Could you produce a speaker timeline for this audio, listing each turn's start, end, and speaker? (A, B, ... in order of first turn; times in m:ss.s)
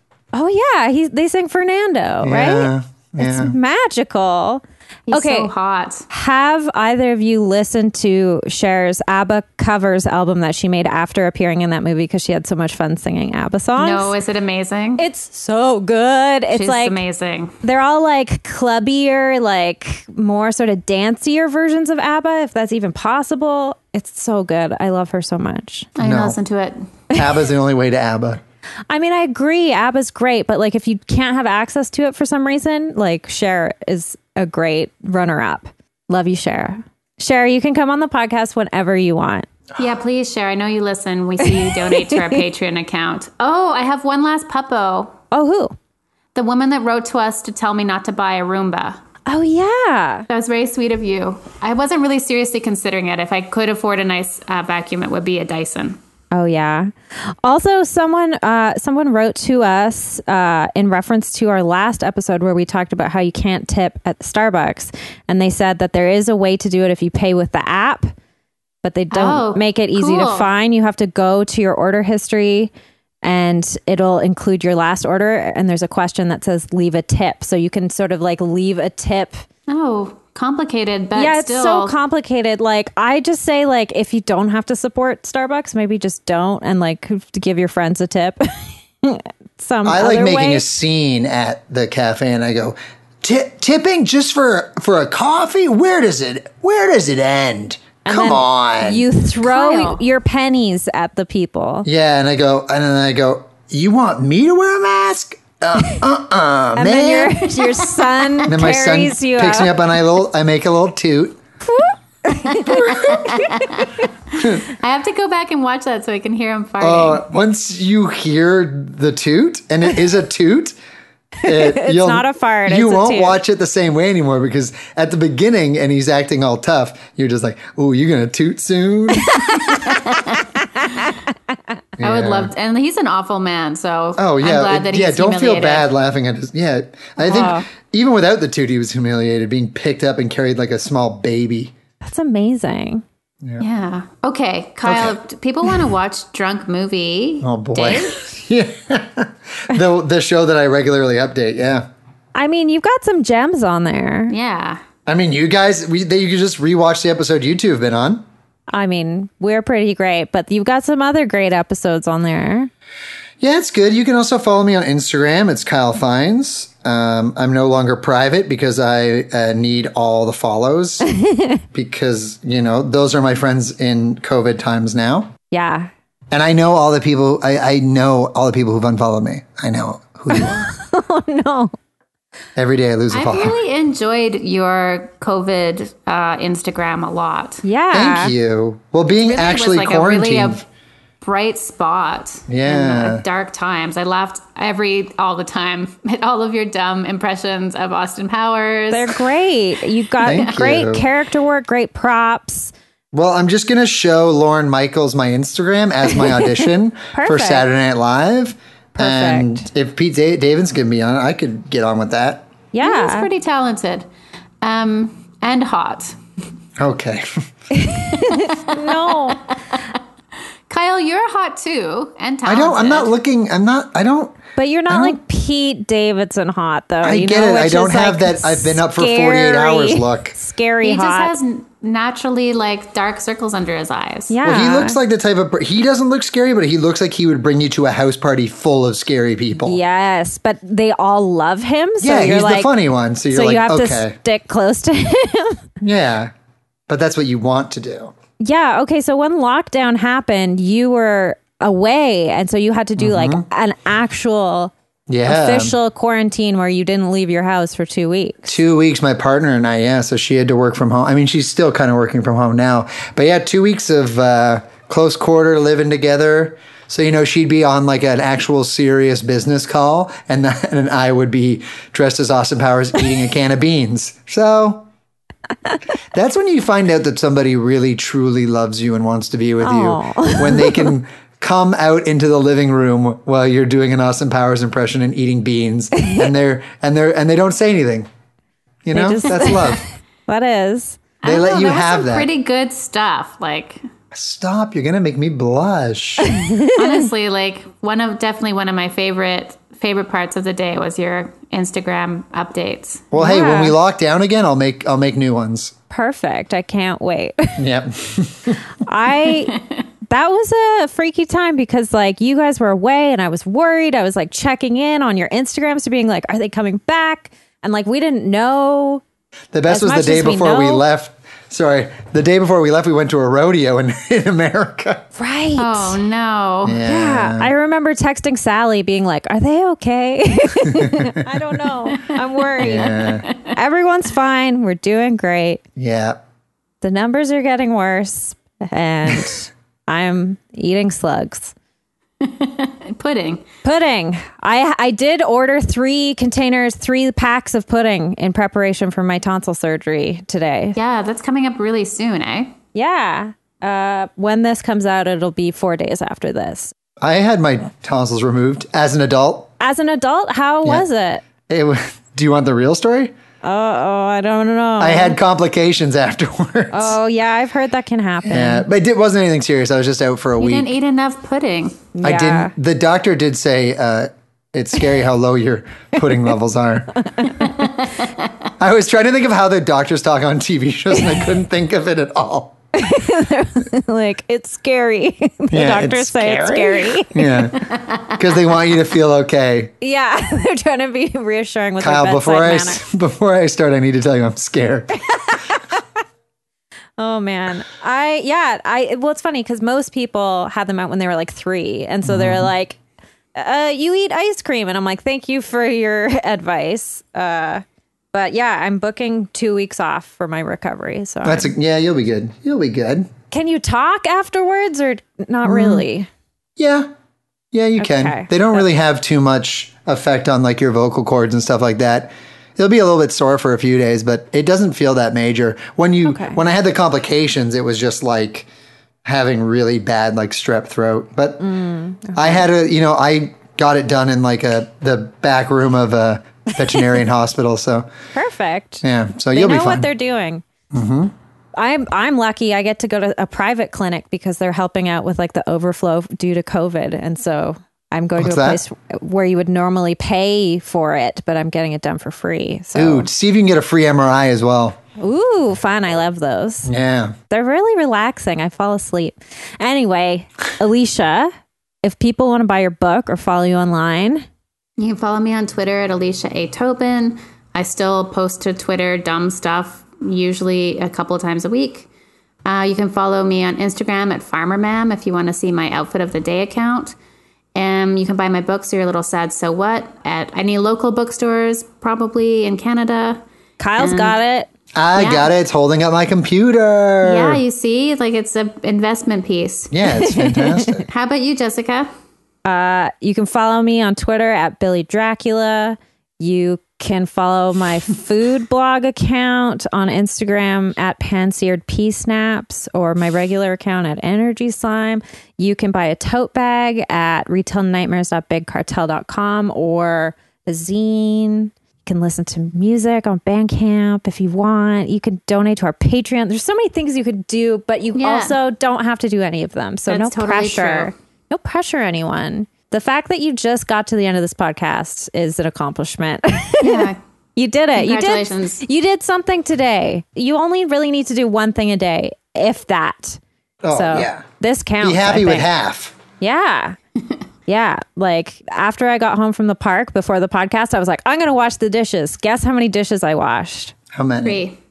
0:00.3-0:05.5 A
0:02.2-0:03.5 B
0:05.1-0:06.1 C
0:06.1-0:14.1 A
0:13.8-0:15.0 C
0:15.0-0:17.0 A
0:16.5-0:17.6 C
0:17.6-0:25.9 A
0:26.0-0:26.8 C
0:26.0-0:26.4 B
0:27.1-0:28.4 B
0:28.9-0:39.5 A
0:39.8-0:45.2 C
0:41.4-0:42.4 A
0:45.3-0:45.8 A
0:46.4-0:49.0 C
0:49.3-0:50.3 A
0:50.3-0:56.0 C
0:56.3-1:08.1 A
1:08.8-1:12.7 A
1:09.1-1:10.5 C
1:13.2-1:19.4 A
1:19.7-1:22.0 C
1:21.2-1:30.7 A
1:29.8-1:39.0 B
1:38.0-1:41.9 A
1:39.4-1:40.0 C
1:41.8-1:47.4 B
1:46.8-1:49.7 A
1:47.6-1:48.3 C
1:48.5-1:51.4 B
1:51.6-1:53.9 A
1:52.4-1:57.2 C
1:52.6-1:53.5 B
1:54.4-1:54.6 B
1:56.8-2:00.8 B
2:01.4-2:03.4 A
2:01.4-2:09.6 B
2:09.2-2:09.9 A
2:09.8-2:10.4 C
2:10.8-2:11.1 A
2:12.0-2:12.5 B
2:12.0-2:15.9 C
2:14.2-2:21.7 B
2:17.2-2:17.6 A
2:22.0-2:23.0 A
2:23.6-2:28.2 C
2:24.8-2:25.2 B
2:27.4-2:31.9 B
2:32.4-2:34.4 A
2:34.3-2:34.8 C
2:35.1-2:38.2 B
2:38.7-2:42.7 A
2:43.4-2:51.1 B
2:51.0-2:51.6 A
2:51.7-2:55.3 B
2:55.5-2:55.9 A
2:56.3-3:00.7 B
3:00.3-3:01.7 A
3:02.6-3:03.6 B
3:03.1-3:07.6 C
3:07.6-3:08.3 A
3:07.9-3:10.6 B
3:09.2-3:10.6 C
3:11.2-3:19.2 C
3:12.5-3:13.2 B
3:18.9-3:22.7 A
3:20.2-3:21.0 B
3:23.1-3:32.5 B
3:27.1-3:27.7 A
3:29.0-3:29.7 A
3:32.7-3:33.3 A
3:32.8-3:34.1 C
3:34.6-3:36.2 C
3:36.8-3:37.4 B
3:37.7-3:39.4 A
3:38.2-3:39.8 C
3:40.7-3:43.1 C
3:42.4-3:44.4 B
3:44.6-3:51.3 A
3:44.9-3:45.2 B
3:47.0-3:50.4 B
3:50.8-3:54.4 C
3:54.3-3:55.0 A
3:54.4-3:59.8 B
3:59.6-4:02.7 A
4:02.0-4:04.2 B
4:03.3-4:05.6 A
4:05.8-4:06.3 B
4:06.9-4:08.1 B
4:08.4-4:14.7 A
4:13.0-4:13.4 B
4:15.1-4:15.8 B
4:15.3-4:18.6 A
4:18.5-4:34.9 B
4:36.1-4:48.1 B
4:39.6-4:40.9 A
4:48.8-4:49.8 B
4:48.9-4:51.0 A
4:51.2-4:53.8 C
4:51.2-4:52.3 B
4:54.1-4:56.3 B
4:56.2-4:57.1 A
4:56.7-5:03.1 C
5:03.1-5:05.7 B
5:03.2-5:03.8 A
5:05.9-5:07.6 A
5:07.6-5:08.6 B
5:08.8-5:09.6 A
5:09.3-5:09.8 C
5:10.1-5:19.0 A
5:19.5-5:25.1 B
5:19.7-5:20.8 A
5:25.2-5:26.0 A
5:25.6-5:26.8 C
5:26.6-5:27.5 B
5:26.8-5:35.6 A
5:30.6-5:31.3 B
5:31.9-5:33.5 C
5:32.6-5:33.3 B
5:35.8-5:36.2 B
5:36.8-5:41.5 A
5:42.2-5:43.4 C
5:43.6-5:50.8 A
5:50.8-5:52.5 C
5:52.7-5:56.7 A
5:57.0-5:59.5 B
5:59.6-6:01.2 A
6:01.5-6:03.1 B
6:03.4-6:05.2 A
6:04.8-6:07.0 B
6:06.7-6:08.7 A
6:08.2-6:10.7 B
6:10.4-6:11.9 C
6:12.0-6:12.5 A
6:12.0-6:17.0 B
6:17.1-6:17.7 A
6:18.6-6:22.6 B
6:22.8-6:27.4 A
6:25.5-6:29.7 B
6:29.8-6:32.8 A
6:31.8-6:35.0 B
6:35.1-6:35.8 A
6:37.0-6:42.8 A
6:42.0-6:42.5 B
6:43.4-6:51.5 A
6:51.2-6:53.1 B
6:53.3-6:56.1 A
6:55.4-6:55.8 B
6:56.6-6:56.9 B
6:57.5-7:08.5 B
6:57.8-6:58.6 A
7:06.0-7:06.4 A
7:09.0-7:11.4 B
7:11.4-7:12.5 A
7:12.2-7:17.9 B
7:18.1-7:20.4 A
7:18.8-7:19.9 B
7:20.7-7:21.1 B
7:21.6-7:33.1 A
7:28.2-7:28.6 B
7:32.8-7:34.8 B
7:35.0-7:36.7 A
7:36.7-7:37.2 B
7:37.3-7:41.3 A
7:41.8-7:44.3 A
7:44.8-7:51.9 C
7:52.5-7:57.0 C
7:57.6-8:03.2 C
8:03.6-8:04.5 A
8:03.8-8:04.2 C
8:04.8-8:07.4 B
8:04.9-8:05.3 C
8:07.0-8:09.7 C
8:09.7-8:10.9 B
8:09.9-8:10.8 A
8:10.9-8:11.9 C
8:12.4-8:53.2 A
8:38.0-8:38.4 C
8:39.9-8:40.9 C
8:46.6-8:47.0 C
8:47.8-8:48.6 C
8:53.6-8:54.2 B
8:53.7-8:55.5 A
8:54.8-8:56.0 B
8:56.2-8:56.8 A
8:57.5-9:03.7 A
9:03.9-9:04.4 B
9:04.2-9:04.6 C